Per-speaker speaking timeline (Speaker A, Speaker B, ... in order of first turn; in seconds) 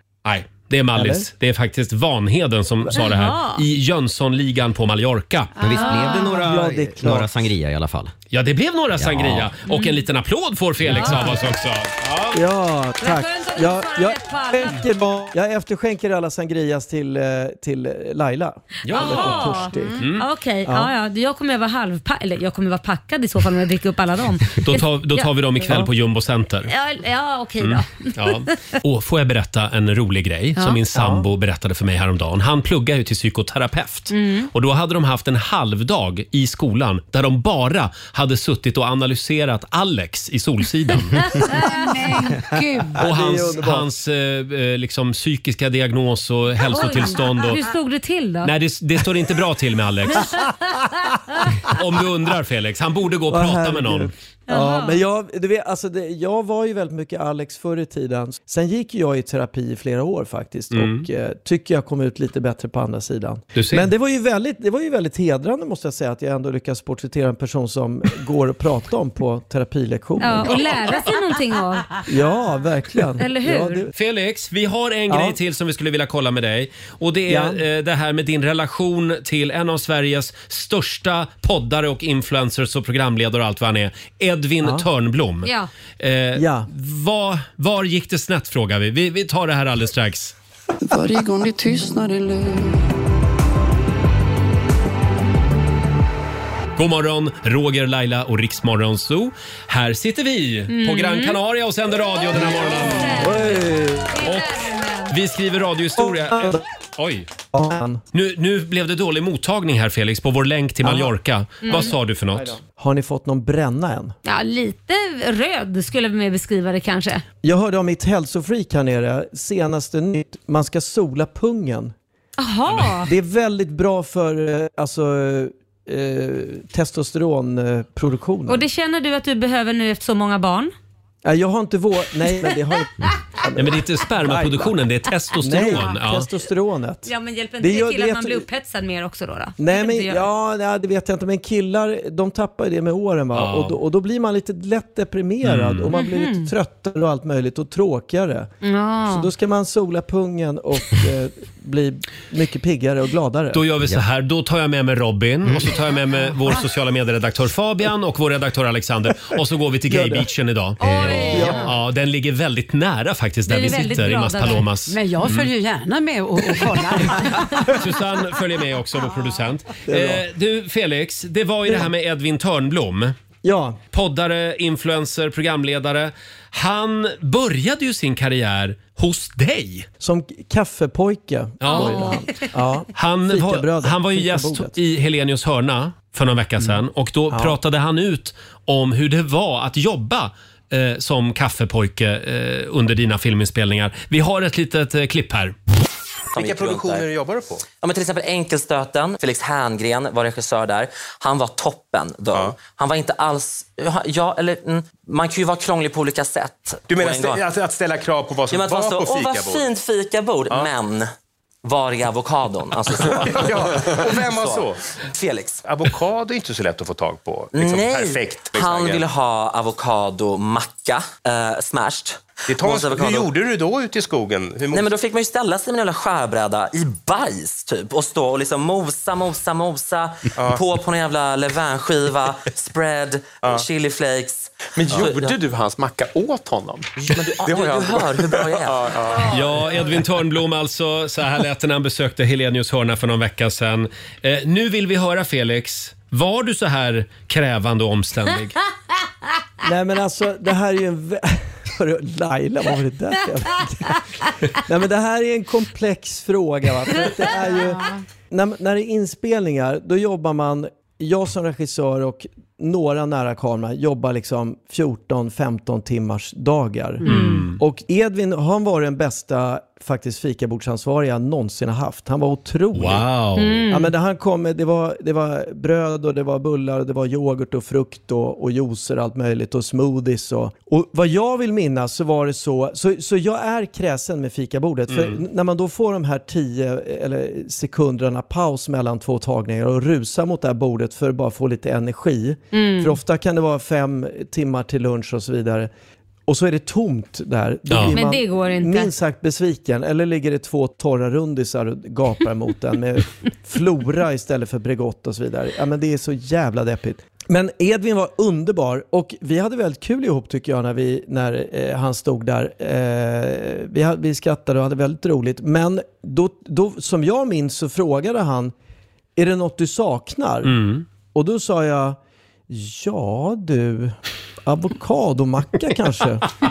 Speaker A: 0.2-5.5, 8.3-12.4, 18.8-20.2, 24.6-26.7, 27.6-41.4, 43.0-47.6, 48.4-50.5, 51.6-54.1, 60.7-61.1, 63.5-63.9, 73.9-90.3, 96.8-103.5, 104.2-107.3, 108.1-112.6, 122.7-123.0, 133.6-136.3, 143.3-143.8, 145.4-145.9, 153.5-165.5, 167.7-173.1, 173.9-179.9, 181.6-182.2, 182.9-195.5, 239.2-248.6, 267.0-267.6, 272.7-273.6, 284.9-285.2, 297.7-298.0, 320.4-320.8
Speaker B: 0.9-1.3, 6.4-7.3, 12.3-20.0, 20.6-20.9, 30.9-31.2, 42.9-43.9, 50.2-50.7, 53.3-70.8, 72.0-73.9, 75.1-75.4, 77.3-77.6, 86.3-86.7, 103.0-104.2, 106.0-106.6, 107.5-108.0, 110.8-111.1, 111.7-114.1, 117.4-121.9, 123.0-128.6, 131.2-134.7, 135.3-137.1, 137.6-138.4, 139.6-148.5, 149.0-153.6, 159.9-160.3, 161.3-161.7, 169.8-170.2, 173.4-173.8, 180.0-184.8, 187.3-187.6, 249.6-254.0, 254.5-273.0, 273.7-295.7, 296.3-318.5, 319.1-320.6, 321.1-322.0, 322.5-326.3
Speaker C: 2.9-3.6, 5.7-6.4, 9.7-10.0, 10.9-11.3, 13.0-14.8, 18.9-25.3, 26.7-28.5, 34.1-34.5, 41.1-41.9, 46.7-48.5, 54.5-55.0, 70.2-72.0, 73.2-73.8, 85.4-85.7, 100.7-101.3, 102.2-105.1, 111.6-111.9, 114.2-117.2, 122.4-123.1, 128.5-130.7, 137.0-140.2, 145.9-146.5, 148.6-149.3, 160.8-161.7, 163.5-164.7, 181.6-182.3, 267.1-267.5, 273.4-273.9, 292.5-292.9, 297.9-298.9
Speaker D: 5.6-8.1, 8.9-9.5, 160.8-161.3
Speaker E: 5.6-6.3, 41.4-43.0, 164.9-167.7
Speaker F: 90.8-92.9
Speaker G: 196.3-197.1, 197.7-207.4, 208.5-211.1, 211.6-215.6, 217.5-223.3, 224.7-235.4, 237.0-239.3
Speaker H: 196.3-197.6, 206.9-209.6, 212.9-214.8, 215.6-219.0, 222.5-224.9, 230.4-230.6, 234.7-239.8